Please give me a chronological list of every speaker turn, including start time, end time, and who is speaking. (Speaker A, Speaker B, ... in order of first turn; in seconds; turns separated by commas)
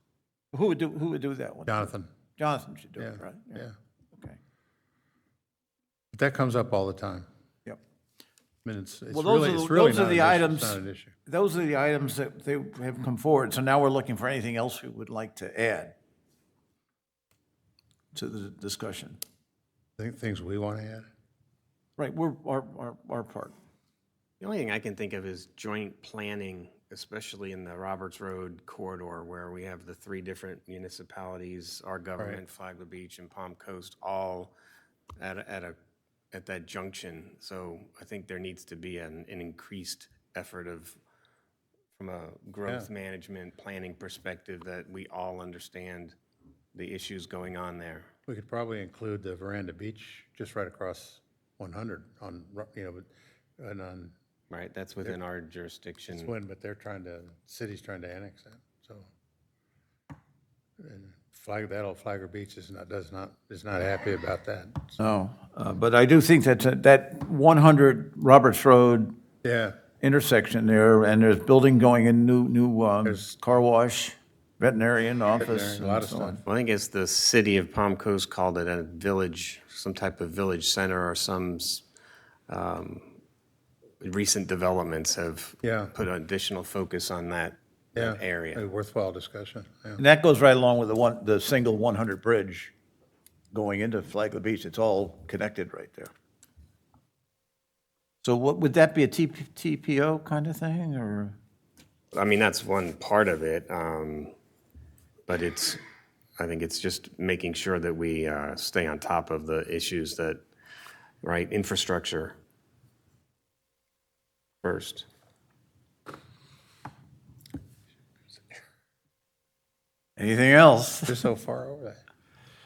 Speaker A: 0.5-4.4, Speaker B: 1.7-2.1, Speaker B: 3.0-3.7, Speaker B: 6.1-7.2, Speaker B: 8.6-11.1, Speaker A: 9.1-15.9, Speaker A: 18.1-19.2, Speaker B: 20.0-21.1, Speaker A: 22.0-23.5, Speaker C: 24.4-34.5, Speaker C: 35.2-35.8, Speaker C: 36.3-41.0, Speaker C: 42.0-46.1, Speaker C: 46.7-48.1, Speaker B: 48.2-54.1, Speaker C: 54.5-56.3, Speaker B: 56.1-59.0, Speaker B: 60.8-65.0, Speaker A: 65.0-69.1, Speaker B: 69.4-69.8, Speaker A: 70.0-76.4, Speaker B: 73.0-73.3, Speaker B: 75.4-76.4, Speaker C: 76.5-81.8, Speaker C: 82.5-83.2, Speaker C: 84.0-88.6, Speaker B: 85.6-85.9, Speaker B: 87.9-90.0, Speaker A: 90.0-92.7, Speaker A: 93.5-96.1, Speaker A: 98.2-101.3, Speaker C: 102.1-104.3, Speaker C: 105.3-105.8, Speaker C: 106.4-110.4, Speaker C: 111.2-112.3, Speaker C: 114.6-115.1, Speaker A: 120.2-121.2, Speaker B: 121.1-122.0